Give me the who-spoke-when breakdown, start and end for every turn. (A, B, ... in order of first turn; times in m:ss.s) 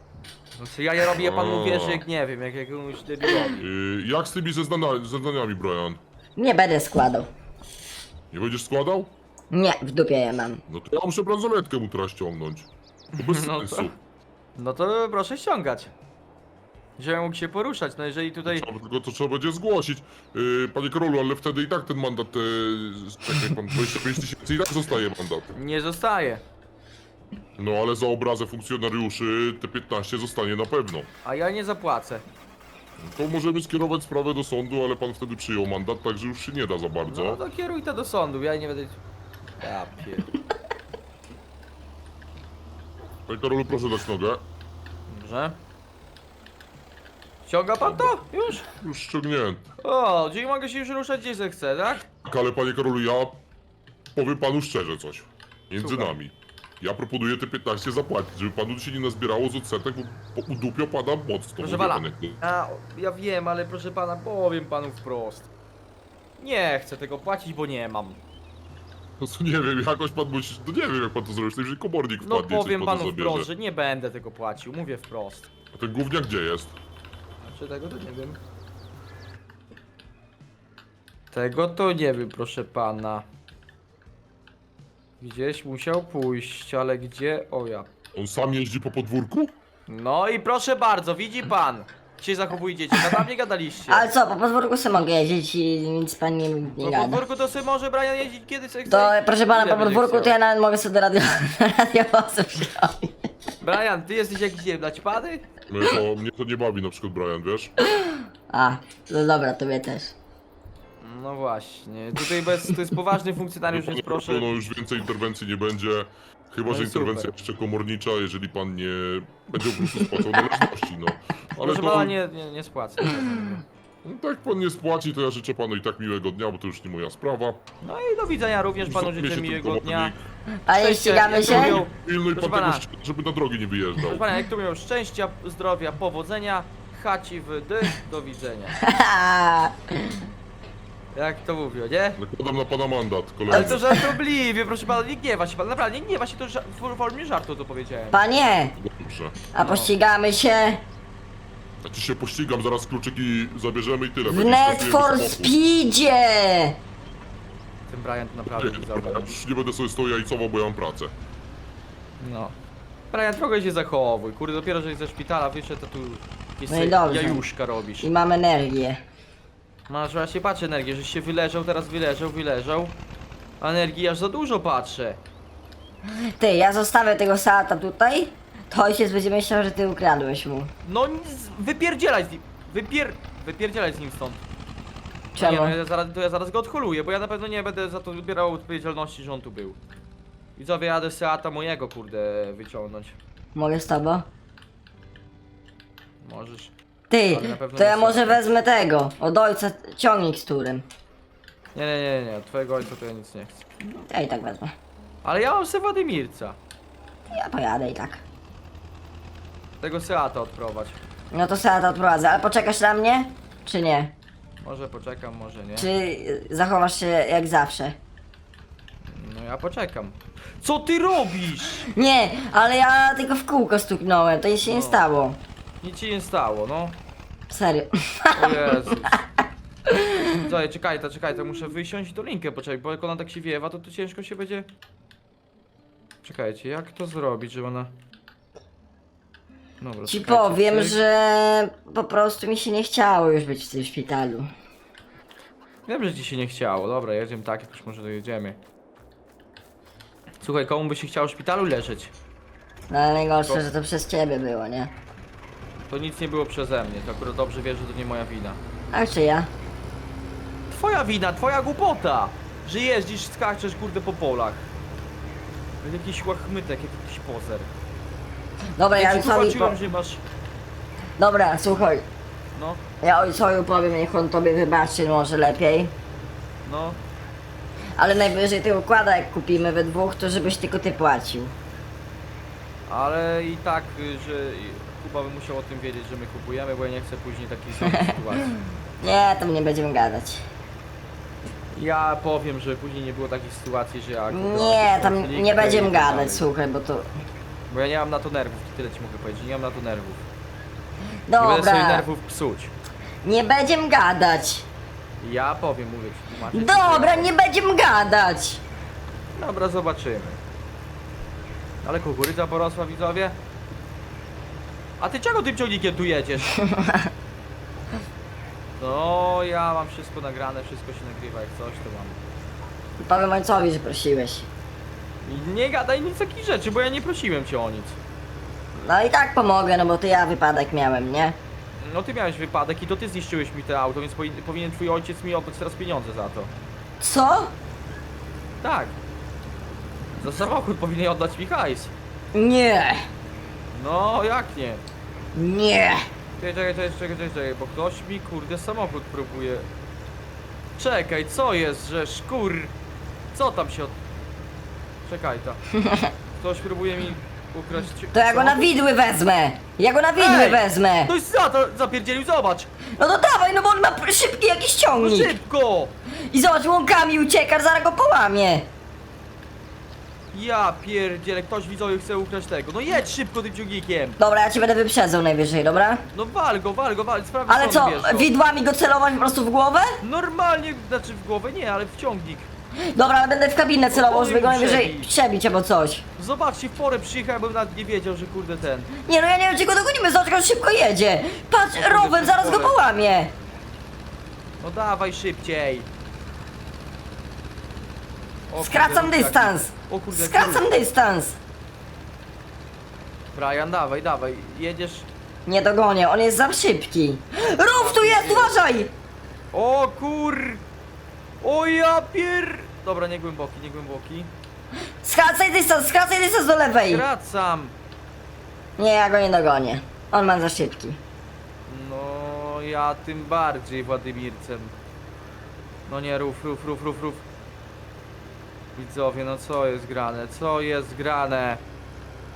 0:00.6-0:03.7 A
0:01.2-0:02.0 B
0:03.6-0:06.0 B
0:06.4-0:07.3 C
0:08.3-0:09.1 B
0:09.5-0:10.6 C
0:10.7-0:13.9 B
0:13.1-0:13.9 A
0:14.6-0:15.9 A
0:17.0-0:18.7 A
0:18.5-0:25.5 B
0:25.5-0:26.4 A
0:27.6-0:31.1 B
0:31.2-0:32.2 A
0:33.0-0:37.4 B
0:37.1-0:39.0 A
0:39.6-0:40.3 A
0:43.3-0:44.4 B
0:45.1-0:45.6 A
0:47.4-0:48.6 A
0:47.8-0:49.6 B
0:49.8-0:52.1 A
0:52.2-0:53.4 B
0:54.2-1:02.4 B
0:55.8-0:56.1 A
1:01.6-1:05.5 A
1:06.4-1:08.2 A
1:09.2-1:13.5 B
1:12.2-1:15.5 A
1:15.7-1:16.7 B
1:17.4-1:18.4 A
1:21.3-1:23.2 A
1:25.2-1:27.9 A
1:28.1-1:29.5 B
1:29.9-1:34.1 A
1:33.9-1:37.2 C
1:36.8-1:40.3 A
1:38.9-1:43.2 C
1:43.6-1:45.4 A
1:45.7-1:47.7 B
1:47.9-1:50.1 C
1:51.0-1:54.6 A
1:53.7-2:02.1 B
1:56.7-1:57.3 A
2:01.5-2:03.6 A
2:04.0-2:07.6 B
2:07.8-2:10.1 A
2:08.8-2:10.2 B
2:10.6-2:11.8 C
2:10.8-2:12.8 A
2:11.4-2:14.2 B
2:14.0-2:18.8 A
2:18.8-2:20.2 C
2:21.1-2:22.2 A
2:22.2-2:24.0 B
2:23.5-2:28.3 A
2:23.5-2:24.0 C
2:28.1-2:28.7 C
2:28.8-2:29.4 B
2:29.5-2:30.8 C
2:29.6-2:29.9 A
2:31.8-2:35.5 B
2:34.2-2:36.8 C
2:37.9-2:39.4 A
2:38.6-2:41.1 B
2:42.2-2:42.6 A
2:43.1-2:48.1 A
2:46.7-2:47.4 C
2:48.0-2:49.0 C
2:49.9-2:53.0 A
2:53.6-2:55.2 A
2:56.4-3:00.7 C
3:00.8-3:04.4 A
3:05.3-3:05.8 C
3:05.4-3:09.8 A
3:10.6-3:13.2 A
3:13.5-3:14.2 C
3:16.2-3:16.7 A
3:17.1-3:20.8 C
3:17.3-3:18.4 A
3:21.7-3:23.6 A
3:23.9-3:24.7 C
3:25.2-3:26.6 A
3:27.3-3:28.2 C
3:29.8-3:31.0 A
3:31.3-3:34.1 C
3:34.6-3:35.9 A
3:35.8-3:38.0 C
3:39.0-3:41.9 A
3:41.9-3:45.4 C
3:44.6-3:45.0 A
3:45.8-3:47.0 A
3:47.5-3:49.2 C
3:48.3-3:49.2 A
3:50.2-3:54.7 A
3:56.2-3:57.9 A
3:59.8-4:01.0 A
4:00.1-4:04.5 C
4:05.8-4:08.6 A
4:10.4-4:12.1 A
4:12.9-4:14.9 C
4:15.9-4:18.6 A
4:18.9-4:19.5 C
4:20.7-4:24.7 A
4:25.8-4:27.7 A
4:28.8-4:29.8 C
4:28.9-4:30.2 A
4:31.2-4:32.0 C
4:32.5-4:32.8 A
4:33.0-4:35.9 C
4:36.6-4:37.0 A
4:38.0-4:41.5 C
4:42.9-4:48.5 A
4:47.8-4:48.1 C
4:49.0-4:50.4 C
4:51.7-4:56.4 A
4:54.3-4:57.1 C
4:57.7-5:00.2 A
5:01.3-5:02.1 C
5:01.4-5:02.7 A
5:03.2-5:04.7 C
5:05.2-5:07.3 A
5:06.5-5:08.6 C
5:09.3-5:10.4 A
5:11.8-5:13.4 A
5:15.0-5:16.6 A
5:16.5-5:17.1 C
5:18.8-5:22.2 A
5:23.0-5:24.5 C
5:25.2-5:28.0 A
5:28.8-5:31.4 C
5:31.8-5:36.5 A
5:37.0-5:37.5 C
5:38.6-5:39.0 A
5:40.2-5:41.9 A
5:42.3-5:43.0 C
5:43.7-5:44.8 A
5:45.3-5:46.0 C
5:46.4-5:49.7 A
5:50.8-5:52.7 A
5:53.3-5:54.0 A
5:55.0-5:55.6 A
5:55.8-5:56.1 C
5:56.4-5:58.7 A
5:58.1-6:01.1 C
6:00.2-6:02.7 A
6:02.9-6:05.3 C
6:04.9-6:05.9 A
6:06.3-6:08.7 C
6:10.3-6:14.2 A
6:14.2-6:16.0 C
6:16.1-6:18.3 A
6:17.5-6:20.0 C
6:20.0-6:22.5 A
6:22.9-6:26.0 C
6:23.9-6:25.1 A
6:26.2-6:28.9 A
6:29.0-6:33.3 C
6:31.7-6:32.8 A
6:34.6-6:35.9 A
6:38.5-6:40.7 A
6:38.6-6:41.4 C
6:43.3-6:45.1 A
6:45.4-6:48.9 C
6:47.6-6:48.6 A
6:49.5-6:50.6 A
6:51.4-6:54.3 A
6:55.0-6:57.0 C
6:56.9-6:57.7 A
6:58.8-7:01.0 C
7:01.7-7:04.7 A
7:05.9-7:07.2 A
7:08.8-7:11.6 A